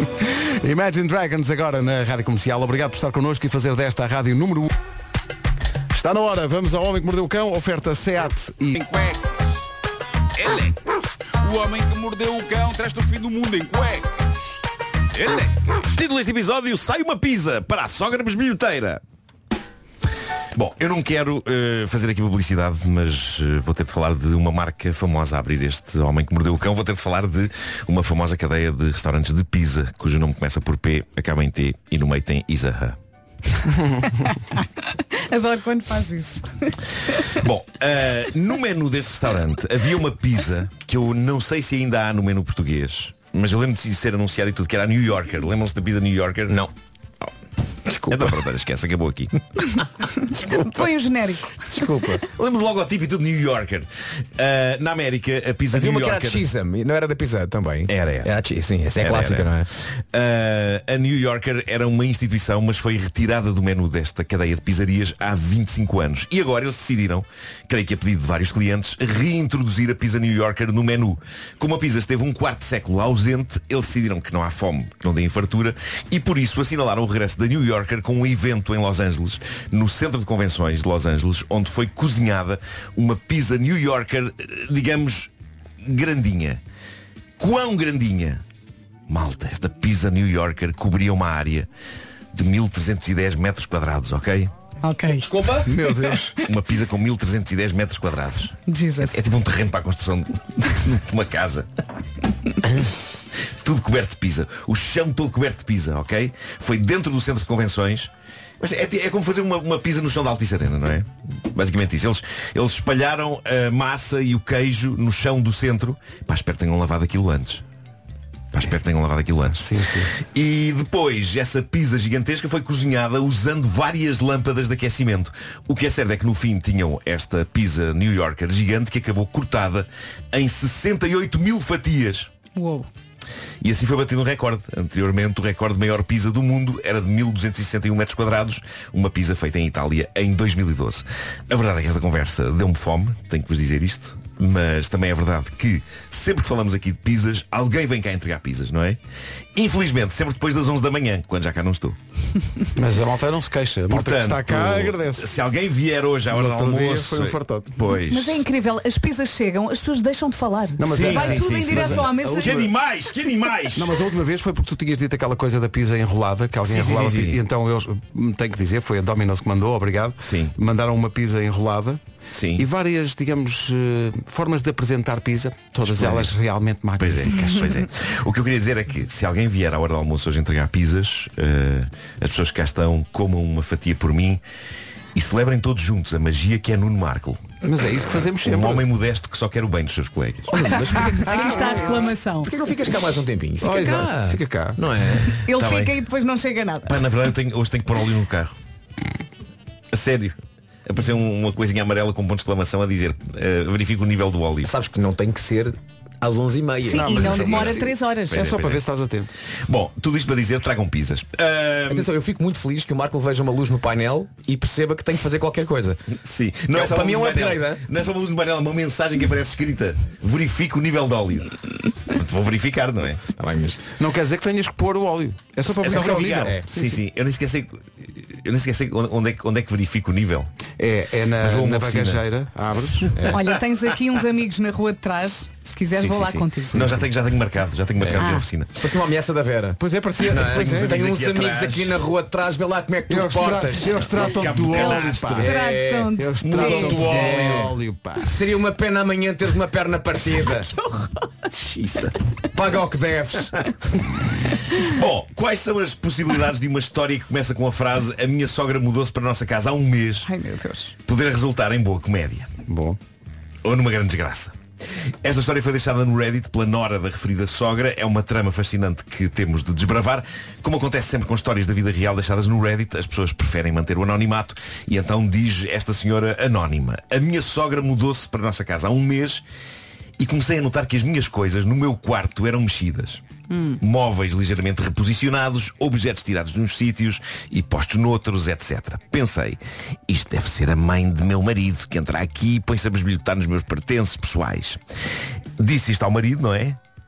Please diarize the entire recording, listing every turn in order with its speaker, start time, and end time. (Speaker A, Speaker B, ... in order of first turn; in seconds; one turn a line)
Speaker A: 0.2-4.8
Speaker A: 5.9-8.8
Speaker B: 8.7-9.6
Speaker B: 10.4-14.3
Speaker B: 15.2-15.7
Speaker C: 15.7-19.0
Speaker C: 20.6-33.0
Speaker D: 34.2-34.7
Speaker D: 35.3-36.8
Speaker C: 37.3-46.6
Speaker E: 47.9-48.4
Speaker C: 48.1-49.3
Speaker D: 50.4-51.6
Speaker E: 51.7-52.2
Speaker C: 52.2-56.4
Speaker E: 55.7-59.7
Speaker C: 57.9-58.3
Speaker C: 59.0-85.3
Speaker C: 85.8-86.6
Speaker C: 87.4-88.4
Speaker C: 89.1-91.7
Speaker C: 92.3-94.5
Speaker D: 94.8-96.5
Speaker E: 95.2-95.7
Speaker A: 95.7-96.4
Speaker C: 96.4-101.7
Speaker D: 98.7-99.2
Speaker C: 103.6-117.6
Speaker C: 118.5-119.7
Speaker A: 119.5-120.1
Speaker C: 120.2-132.3
Speaker D: 132.6-132.9
Speaker C: 133.6-149.0
Speaker C: 149.6-152.0
Speaker A: 152.8-155.3
Speaker C: 153.9-158.4
Speaker A: 156.3-157.8
Speaker D: 158.1-162.7
Speaker A: 160.8-162.7
Speaker C: 160.8-163.9
Speaker A: 163.7-172.0
Speaker C: 166.6-167.4
Speaker C: 170.2-170.5
Speaker C: 172.3-172.7
Speaker A: 172.6-177.6
Speaker C: 175.8-176.3
Speaker C: 177.0-184.4
Speaker C: 185.1-187.5
Speaker A: 187.6-188.9
Speaker C: 188.4-190.5
Speaker E: 190.5-195.4
Speaker D: 190.9-192.5
Speaker A: 193.6-194.8
Speaker D: 195.4-197.0
Speaker C: 195.5-195.9
Speaker C: 196.9-198.6
Speaker C: 199.9-204.7
Speaker E: 204.6-207.6
Speaker D: 206.9-208.5
Speaker A: 206.9-209.3
Speaker C: 207.2-208.8
Speaker C: 209.7-212.1
Speaker E: 211.9-216.0
Speaker C: 216.2-223.2
Speaker E: 216.7-217.8
Speaker E: 223.3-223.8
Speaker A: 224.0-227.0
Speaker C: 225.7-230.5
Speaker E: 225.9-226.7
Speaker A: 230.8-233.2
Speaker C: 231.4-232.2
Speaker E: 233.1-233.4
Speaker D: 233.3-236.9
Speaker C: 236.0-238.9
Speaker E: 238.0-244.5
Speaker D: 238.2-238.4
Speaker A: 239.8-240.9
Speaker C: 240.4-242.0
Speaker A: 243.1-245.5
Speaker C: 244.0-245.5
Speaker D: 244.7-247.3
Speaker E: 245.2-250.7
Speaker A: 246.2-248.4
Speaker C: 246.4-247.6
Speaker E: 252.5-253.7
Speaker C: 254.8-260.3
Speaker D: 260.2-260.9
Speaker C: 261.1-262.5
Speaker A: 262.7-263.0
Speaker C: 263.6-264.6
Speaker C: 265.2-279.4
Speaker C: 280.2-283.2
Speaker D: 283.5-283.8
Speaker C: 283.8-294.8
Speaker C: 295.6-296.8